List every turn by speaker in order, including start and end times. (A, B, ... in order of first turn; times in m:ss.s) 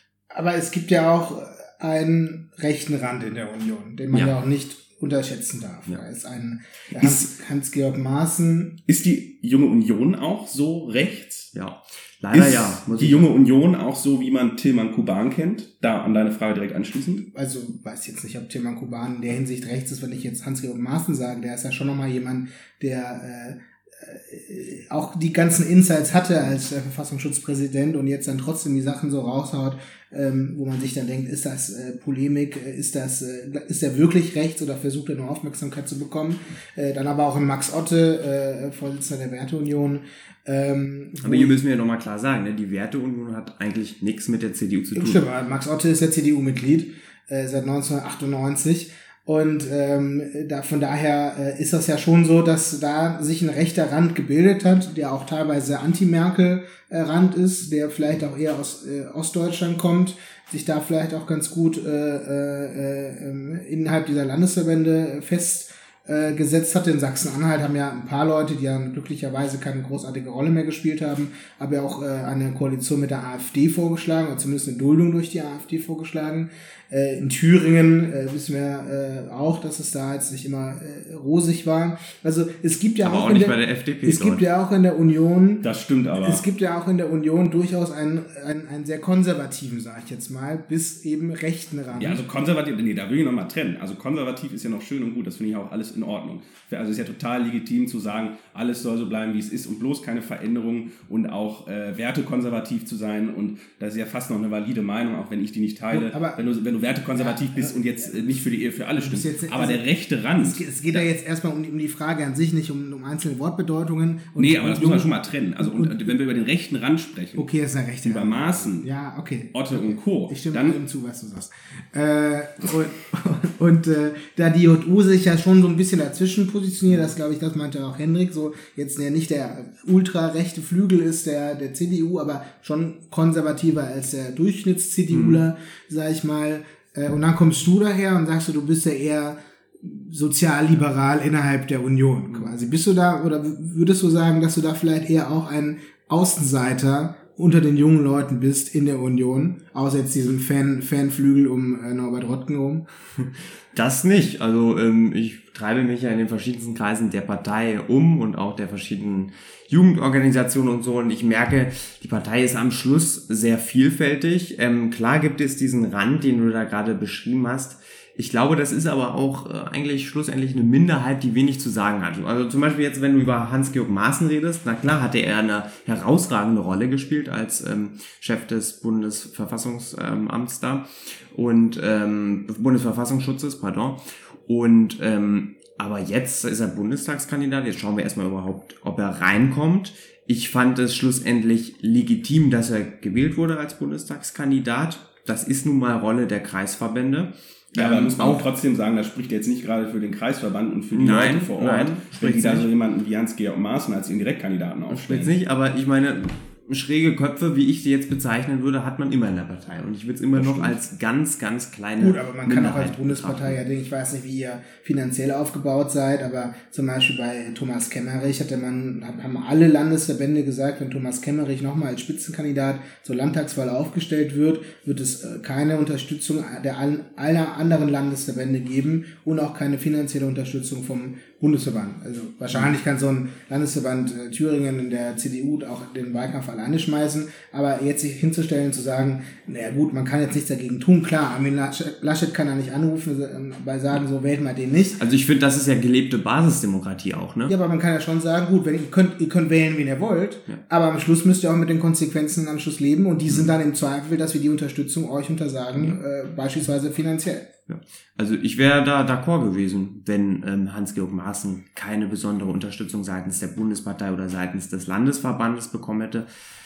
0:00.3-0:08.8 A
0:08.9-0:11.5 B
0:11.5-0:13.3 C
0:12.3-0:17.3 B
0:17.3-0:41.6 A
0:41.2-0:45.2 C
0:45.0-1:25.6 A
1:23.0-1:24.5 C
1:25.6-1:26.4 B
1:26.2-1:32.2 A
1:32.0-1:51.1 B
1:45.9-1:46.4 A
1:47.2-1:48.4 A
1:49.0-1:49.8 A
1:50.4-1:56.1 A
1:54.4-1:57.5 B
1:57.4-2:32.8 A
1:58.0-1:58.9 B
1:59.5-2:00.8 B
2:15.1-2:15.4 C
2:33.7-3:18.5 C
3:17.8-3:25.3 B
3:20.9-3:22.7 C
3:24.9-3:33.6 C
3:30.4-3:30.8 A
3:32.0-4:05.0 A
4:05.0-4:07.5 C
4:07.5-4:17.5 A
4:17.7-4:26.3 C